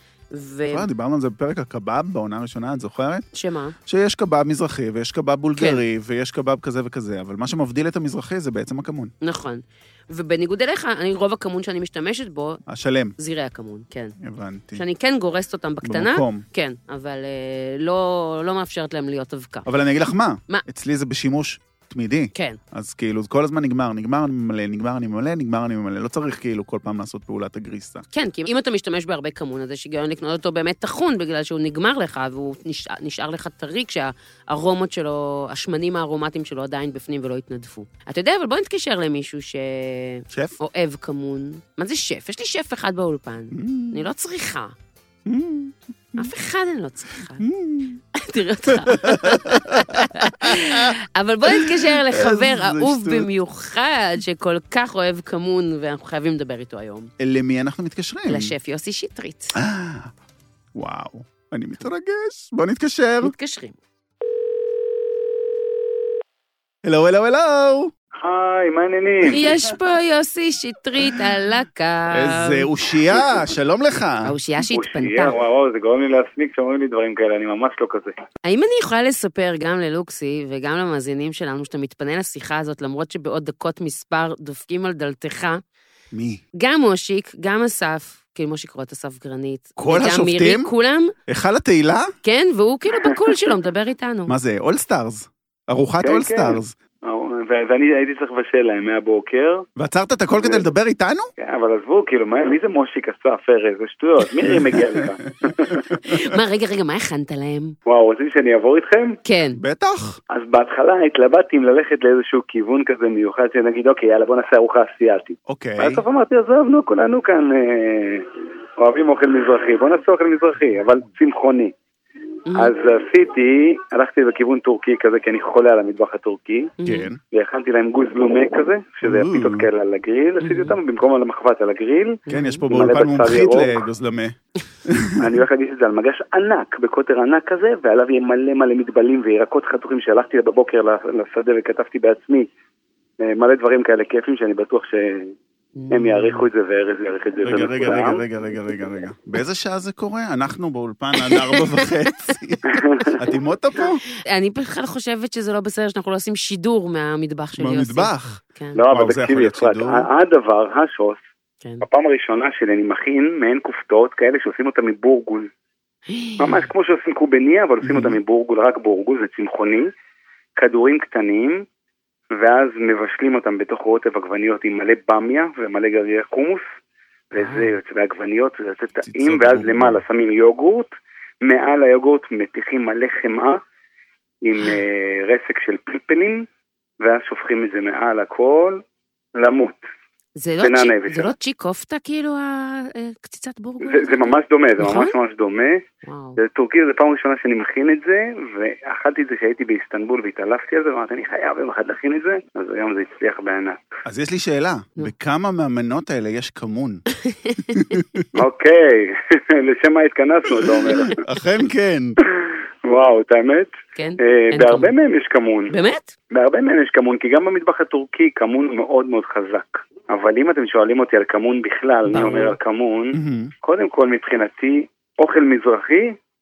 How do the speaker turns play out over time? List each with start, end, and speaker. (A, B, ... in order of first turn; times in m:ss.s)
0:00.3-0:00.9 A
0:00.7-0:03.3 B
0:03.3-0:03.8 A
0:03.9-0:09.1 B
0:05.6-0:05.8 A
0:09.2-0:12.6 A
0:12.7-0:13.2 B
0:13.2-0:14.2 A
0:14.2-0:14.8 B
0:14.8-0:19.7 A
0:15.8-0:16.4 B
0:19.6-0:28.0 B
0:28.1-0:44.7 A
0:40.3-0:40.6 B
0:43.5-0:44.0 B
0:45.3-0:46.3 B
0:46.2-0:47.5 A
0:47.4-0:48.0 B
0:48.1-0:57.1 A
0:48.7-0:50.9 B
0:51.5-0:53.3 B
0:57.2-0:58.5 B
0:58.3-0:59.6 A
0:59.6-1:00.1 B
1:00.8-1:03.3 B
1:03.2-1:03.8 A
1:06.8-1:07.9 B
1:08.2-1:09.5 C
1:09.2-1:12.7 A
1:12.1-1:14.4 B
1:14.2-1:15.4 A
1:14.7-1:18.1 C
1:18.4-1:25.6 A
1:26.1-1:26.4 B
1:26.6-1:31.1 A
1:29.8-1:30.7 B
1:31.3-1:32.1 B
1:32.2-1:34.3 A
1:34.3-1:36.8 B
1:36.0-1:39.7 C
1:39.8-1:41.3 B
1:40.4-1:40.6 C
1:41.4-1:45.9 C
1:44.4-1:46.3 B
1:46.0-1:47.8 A
1:47.9-1:49.2 C
1:49.2-1:49.6 A
1:49.6-1:50.2 B
1:50.3-2:01.7 C
1:55.5-1:56.0 B
2:02.5-2:13.8 C
2:06.8-2:07.1 A
2:06.8-2:07.2 B
2:09.0-2:09.7 B
2:10.4-2:10.8 A
2:12.3-2:12.6 A
2:12.3-2:15.4 B
2:15.2-2:22.5 C
2:23.2-2:25.3 C
2:25.8-2:26.5 A
2:25.9-2:28.2 C
2:27.4-2:34.0 B
2:31.2-2:32.3 A
2:32.7-2:33.2 C
2:33.8-2:38.8 A
2:37.6-2:40.1 B
2:38.8-2:41.2 C
2:41.8-2:45.5 C
2:46.1-2:46.7 A
2:46.4-2:49.9 C
2:47.8-2:48.2 B
2:50.6-2:51.6 C
2:52.4-2:56.6 C
2:57.3-3:03.6 C
2:57.4-2:57.7 A
2:59.0-3:00.0 B
3:04.4-3:06.5 C
3:07.0-3:08.8 C
3:09.4-3:09.8 C
3:10.4-3:15.2 A
3:10.6-3:11.3 C
3:13.8-3:15.8 C
3:16.0-3:16.4 A
3:16.4-3:23.8 C
3:24.1-3:27.0 B
3:27.2-3:27.9 A
3:27.7-3:28.3 B
3:28.3-3:31.2 C
3:31.1-3:32.2 B
3:32.4-3:35.8 C
3:34.0-3:34.9 A
3:35.7-3:36.1 A
3:36.3-3:46.2 C
3:42.1-3:42.6 A
3:43.1-3:43.5 B